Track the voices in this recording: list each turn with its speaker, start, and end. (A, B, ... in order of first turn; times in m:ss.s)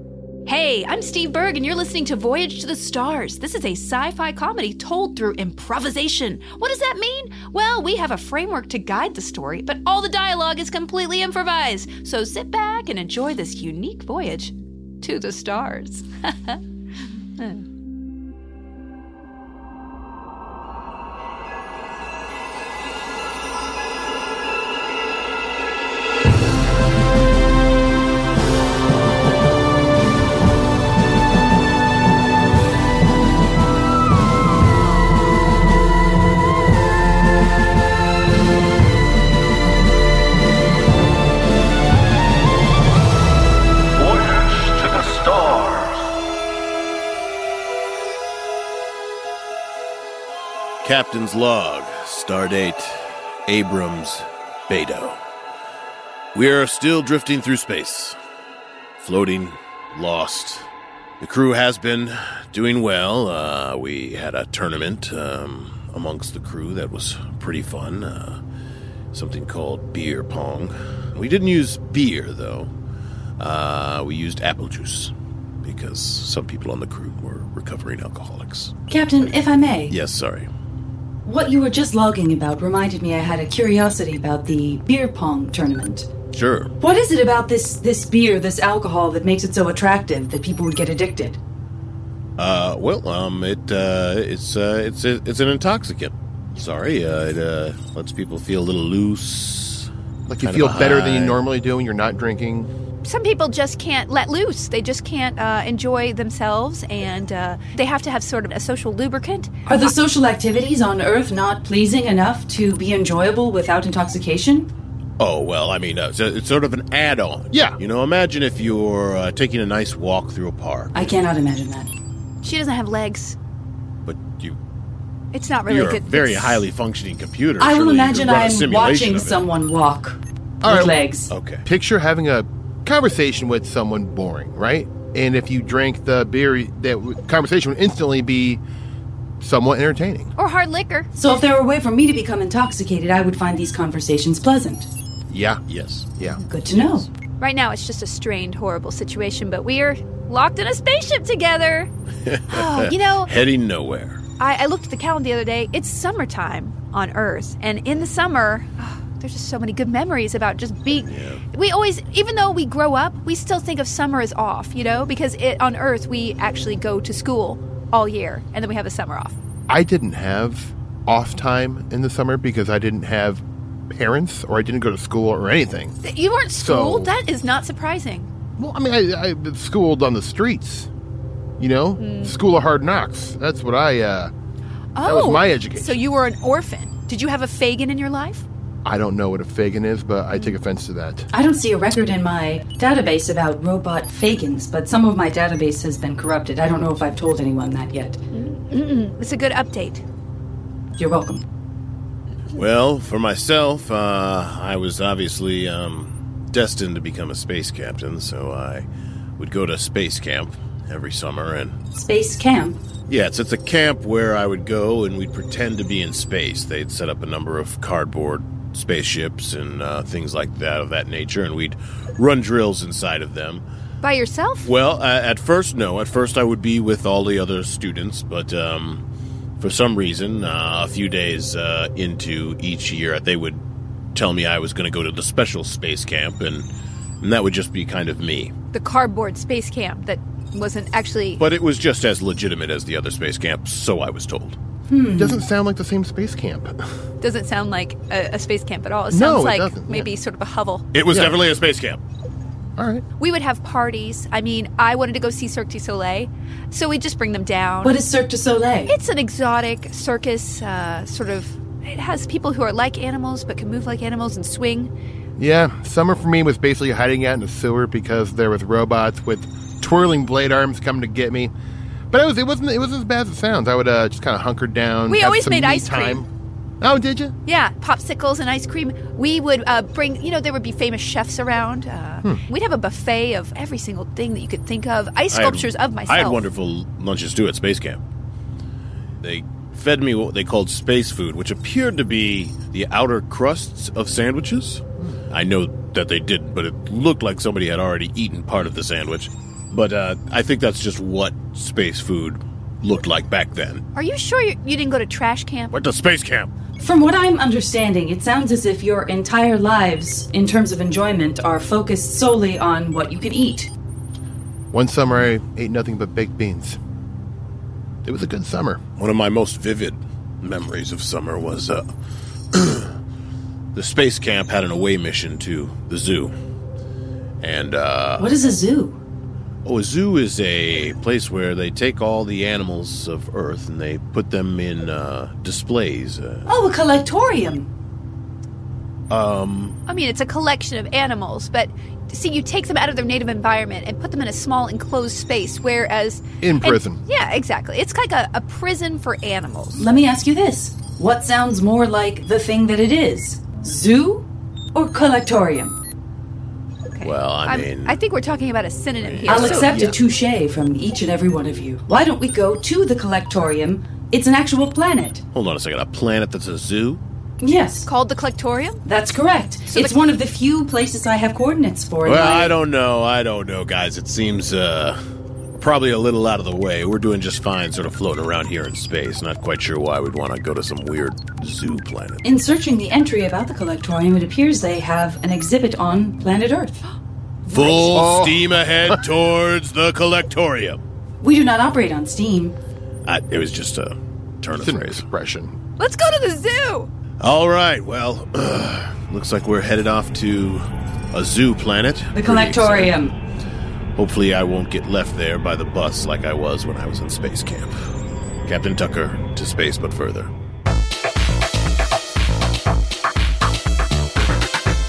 0:00.5-0:16.6 A
0:17.4-0:17.6 A
0:44.0-0:46.0 B
0:50.8-0:55.2 B
0:56.3-0:58.2 B
0:59.0-1:00.6 B
1:01.2-1:08.4 B
1:09.1-1:12.7 B
1:13.4-1:18.7 B
1:18.9-1:19.9 C
1:19.9-1:20.5 B
1:21.2-1:26.1 C
1:26.3-1:26.7 B
1:26.8-1:31.4 C
1:32.4-1:39.9 B
1:40.3-1:42.7 D
1:40.4-1:41.4 B
1:43.0-1:49.9 A
1:49.7-1:54.7 C
1:55.2-2:01.1 B
1:57.5-1:57.8 D
2:00.9-2:01.9 C
2:02.4-2:03.4 A
2:04.0-2:04.6 B
2:05.3-2:06.6 A
2:05.6-2:09.4 B
2:07.6-2:11.3 C
2:10.6-2:11.0 D
2:11.3-2:11.6 B
2:11.6-2:18.6 D
2:19.4-2:20.3 D
2:20.4-2:21.1 A
2:21.2-2:24.9 C
2:25.3-2:25.6 D
2:25.7-2:26.1 B
2:26.2-2:26.4 D
2:26.4-2:27.1 C
2:27.4-2:31.9 A
2:32.3-2:34.2 B
2:32.5-2:33.3 A
2:34.4-2:49.4 A
2:40.9-2:41.4 B
2:49.7-2:56.0 D
2:56.0-2:58.3 A
2:56.6-2:57.1 D
2:58.6-3:00.9 D
3:01.6-3:04.3 D
3:02.0-3:02.4 A
3:05.0-3:08.4 A
3:05.0-3:06.0 D
3:08.8-3:11.3 D
3:10.3-3:10.6 A
3:11.3-3:18.2 C
3:18.3-3:20.0 A
3:21.0-3:21.4 C
3:22.6-3:28.9 B
3:29.4-3:31.8 B
3:31.9-3:32.8 C
3:33.1-3:43.6 B
3:44.0-3:44.7 A
3:44.6-3:49.0 B
3:49.6-3:56.7 B
3:57.2-3:58.5 B
3:58.7-4:01.4 A
4:01.4-4:04.6 B
4:04.9-4:05.5 C
4:05.2-4:06.8 D
4:07.2-4:10.8 A
4:09.1-4:10.1 D
4:10.9-4:12.0 B
4:11.1-4:11.4 D
4:12.8-4:13.0 D
4:13.2-4:18.0 A
4:17.8-4:18.9 C
4:18.9-4:24.9 A
4:25.4-4:31.5 D
4:32.1-4:36.3 D
4:35.1-4:36.2 A
4:36.8-4:37.3 D
4:37.4-4:46.4 A
4:45.3-4:48.0 B
4:49.2-5:03.8 B
5:03.9-5:05.7 A
5:05.7-5:06.5 B
5:06.8-5:13.7 C
5:14.7-5:16.8 D
5:18.0-5:18.8 D
5:19.0-5:21.9 B
5:22.5-5:22.9 B
5:23.7-5:26.3 B
5:27.4-5:28.4 B
5:28.2-5:29.0 C
5:29.6-5:36.5 B
5:36.4-5:37.7 C
5:39.1-5:39.8 B
5:39.9-5:49.8 A
5:46.4-5:47.0 D
5:49.8-5:55.8 C
5:56.9-5:59.9 A
5:57.0-5:58.0 B
5:59.0-5:59.9 B
5:59.3-6:05.2 C
6:05.3-6:07.0 B
6:07.4-6:07.9 C
6:07.8-6:08.8 A
6:08.8-6:12.5 C
6:09.7-6:10.0 A
6:12.0-6:15.0 B
6:15.6-6:22.2 B
6:22.2-6:26.9 C
6:27.5-6:30.8 B
6:27.6-6:29.1 D
6:31.2-6:32.6 C
6:33.0-6:35.0 B
6:34.5-6:35.6 D
6:35.8-6:36.9 A
6:37.2-6:43.0 B
6:42.1-6:43.2 C
6:44.0-6:47.7 B
6:48.4-6:50.3 B